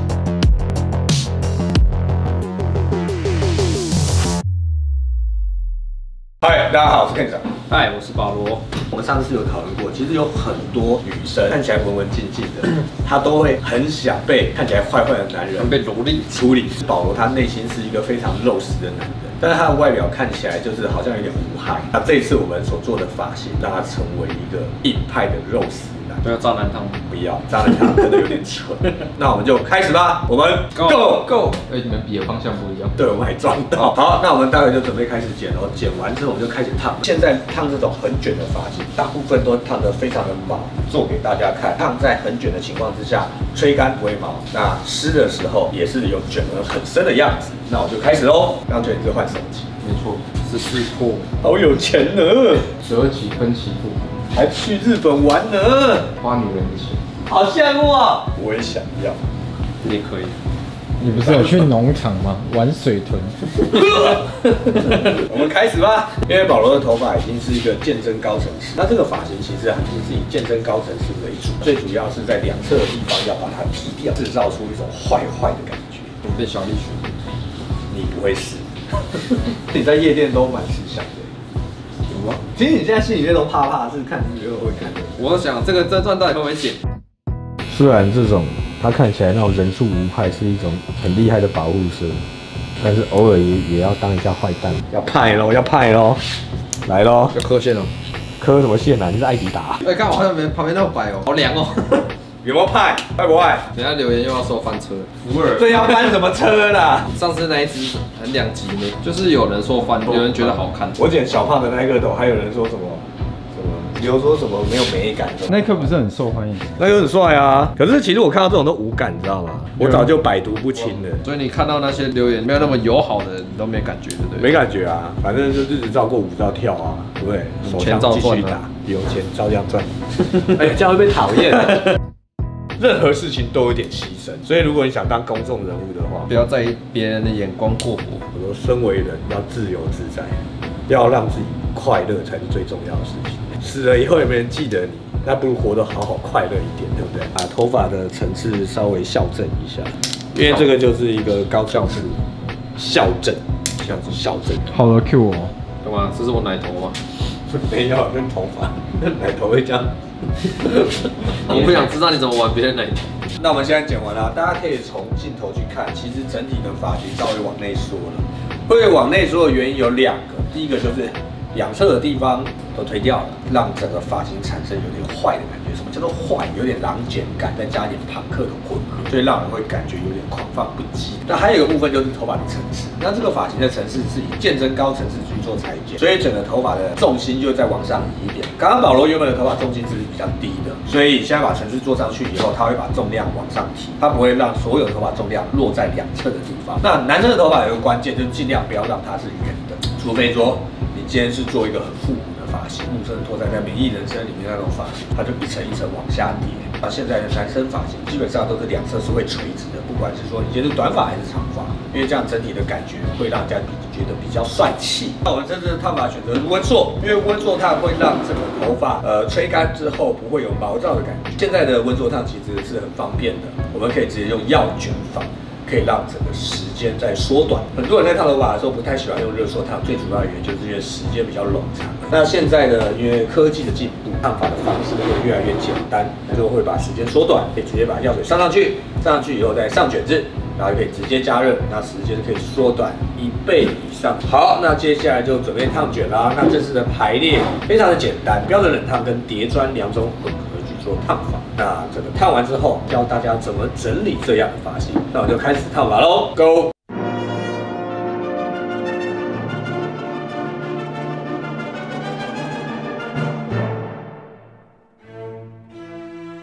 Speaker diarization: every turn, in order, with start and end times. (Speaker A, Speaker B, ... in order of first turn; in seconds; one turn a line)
Speaker A: 6.4-7.5
Speaker B: 7.7-8.6
Speaker A: 8.8-26.2
Speaker B: 15.6-16.2
Speaker B: 26.2-27.0
Speaker A: 27.1-31.4
Speaker B: 30.7-31.6
Speaker C: 31.5-32.9
Speaker A: 32.9-49.7
Speaker B: 49.9-51.3
Speaker C: 49.9-50.2
Speaker A: 51.4-52.7
Speaker C: 52.8-54.1
Speaker A: 54.3-56.1
Speaker C: 56.2-57.0
Speaker A: 57.2-59.2
Speaker B: 59.8-60.4
Speaker D: 61.0-63.4
Speaker A: 61.0-61.7
Speaker C: 61.2-61.9
Speaker A: 63.6-76.1
Speaker B: 76.2-77.2
Speaker A: 77.9-81.3
Speaker B: 82.1-82.4
Speaker A: 82.5-85.2
Speaker B: 85.2-86.8
Speaker A: 87.7-92.2
Speaker A: 92.8-96.2
Speaker A: 96.8-97.3
Speaker B: 97.3-97.9
Speaker A: 98.4-99.8
Speaker B: 99.8-102.1
Speaker A: 102.4-103.7
Speaker B: 103.7-105.6
Speaker A: 105.3-107.1
Speaker B: 107.1-111.0
Speaker A: 111.0-115.9
Speaker D: 115.5-116.6
Speaker A: 116.8-121.2
Speaker B: 121.2-124.5
Speaker A: 124.4-131.9
Speaker B: 127.6-128.6
Speaker A: 132.8-136.3
Speaker B: 136.3-138.2
Speaker A: 138.3-152.2
Speaker A: 152.8-153.4
Speaker B: 153.8-154.2
Speaker A: 154.1-154.7
Speaker C: 154.7-155.1
Speaker D: 154.9-155.5
Speaker B: 155.8-156.9
Speaker A: 157.5-159.9
Speaker A: 160.6-161.9
Speaker B: 161.4-163.1
Speaker A: 163.4-256.7